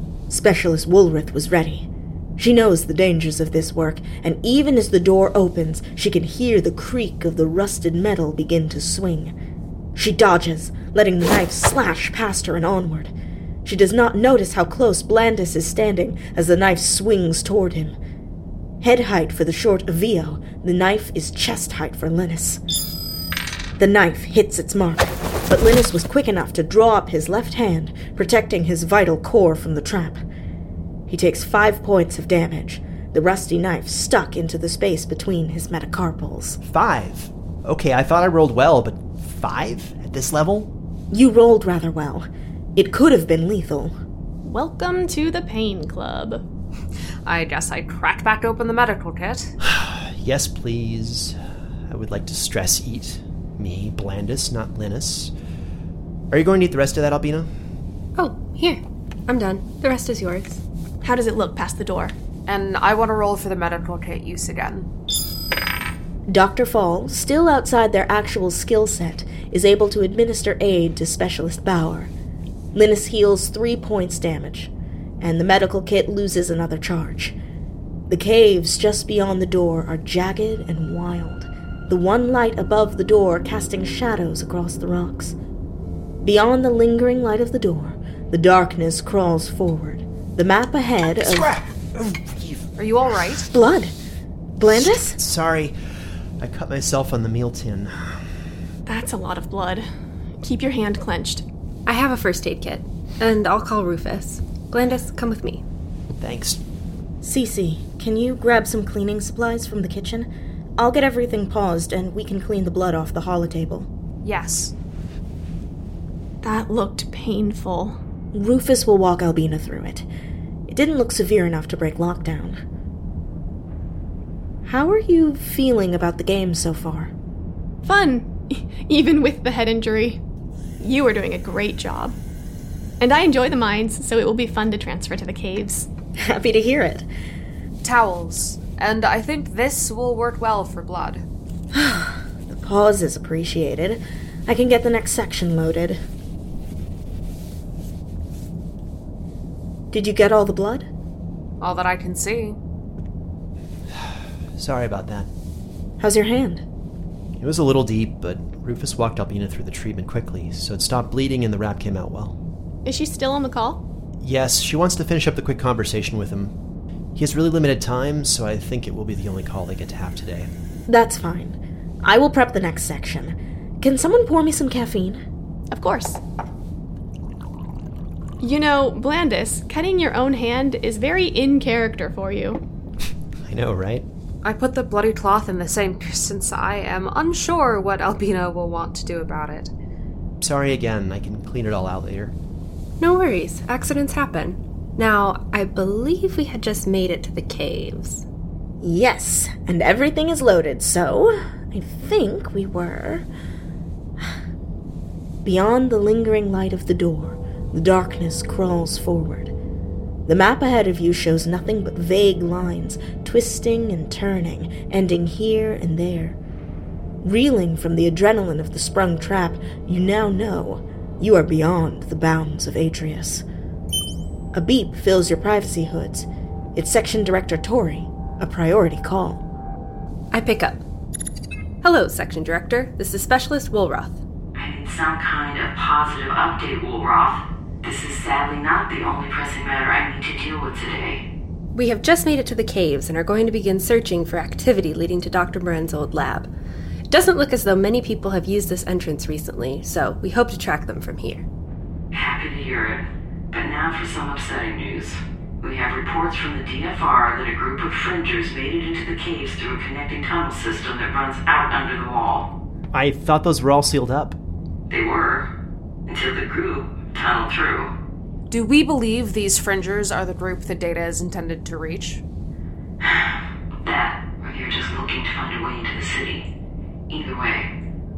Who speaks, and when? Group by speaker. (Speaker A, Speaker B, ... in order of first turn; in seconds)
Speaker A: 0.3-9.3, 9.9-13.1, 13.6-18.0, 18.8-22.6, 23.8-30.2, 31.1-36.6, 41.1-43.9, 66.3-72.1, 72.7-77.3, 78.1-85.3, 86.2-91.5, 93.5-93.9, 94.6-95.2, 107.2-113.9, 118.3-120.1, 120.7-122.6, 124.6-127.1, 136.2-137.1, 141.7-146.0, 149.9-150.9, 156.0-156.6, 170.9-175.2, 198.8-203.2, 205.4-209.5, 210.2-216.4, 217.2-223.4, 224.5-229.4
Speaker B: 36.7-40.7, 49.6-55.3, 56.3-57.5, 91.2-92.7, 94.7-95.8, 96.4-98.2, 106.2-106.6, 153.9-155.3, 157.4-162.4, 164.2-166.5, 167.1-170.5, 183.5-184.1, 190.4-192.3, 262.9-264.4
Speaker C: 44.4-46.4, 61.0-62.1, 98.8-99.9, 100.4-101.4, 116.4-118.0, 127.8-130.2, 130.8-132.2, 133.0-135.9, 162.8-163.8, 175.7-176.2, 178.4-182.6
Speaker D: 47.2-49.5, 62.5-64.9, 92.8-93.5, 114.2-114.7, 137.8-141.2, 151.6-152.6, 184.4-189.7, 268.5-272.2
Speaker E: 58.1-60.6, 101.8-105.6, 193.0-198.2, 230.3-230.8, 231.8-234.2, 241.7-246.5, 247.1-251.4
Speaker F: 234.6-241.2, 252.1-262.5, 264.9-265.5, 266.1-267.9, 273.0-276.4, 277.1-277.7